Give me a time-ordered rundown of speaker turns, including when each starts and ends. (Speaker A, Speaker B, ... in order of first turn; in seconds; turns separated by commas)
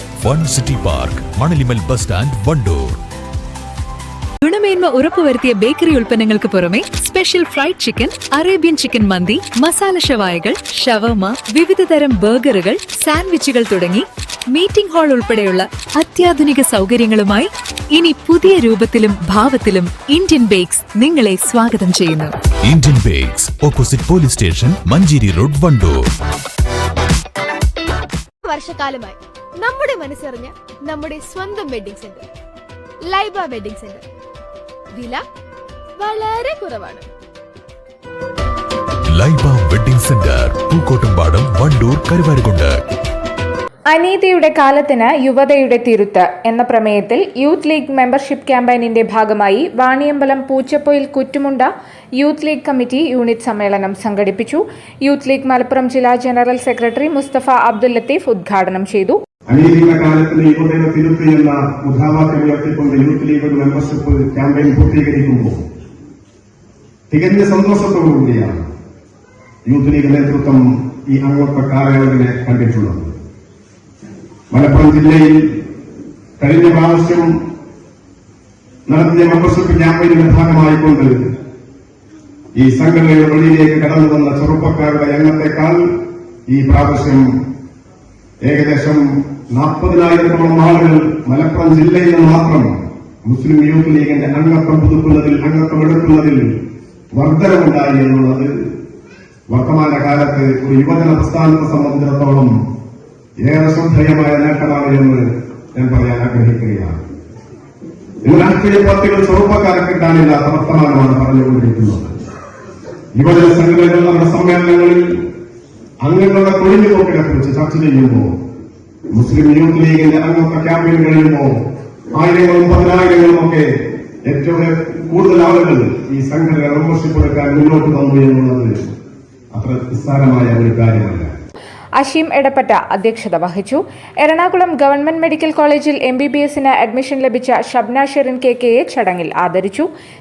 Speaker A: 0.2-3.0, Speaker B: 4.4-22.3, Speaker A: 22.6-26.1, Speaker C: 28.4-32.2, Speaker C: 33.1-34.0, Speaker C: 34.9-35.2, Speaker C: 36.0-37.1, Speaker A: 39.0-42.8, Speaker D: 43.9-59.2, Speaker E: 59.5-65.6, Speaker E: 67.1-68.7, Speaker E: 69.7-73.1, Speaker E: 74.5-75.6, Speaker E: 76.4-77.3, Speaker E: 78.9-81.2, Speaker E: 82.5-85.8, Speaker E: 86.5-87.3, Speaker E: 88.4-92.7, Speaker E: 93.2-96.5, Speaker E: 97.1-98.5, Speaker E: 99.5-102.5, Speaker E: 103.4-107.0, Speaker E: 108.2-112.2, Speaker E: 113.2-115.2, Speaker E: 116.0-118.3, Speaker E: 119.1-121.5, Speaker E: 122.1-123.7, Speaker E: 124.2-128.8, Speaker E: 129.5-131.3, Speaker D: 132.0-139.9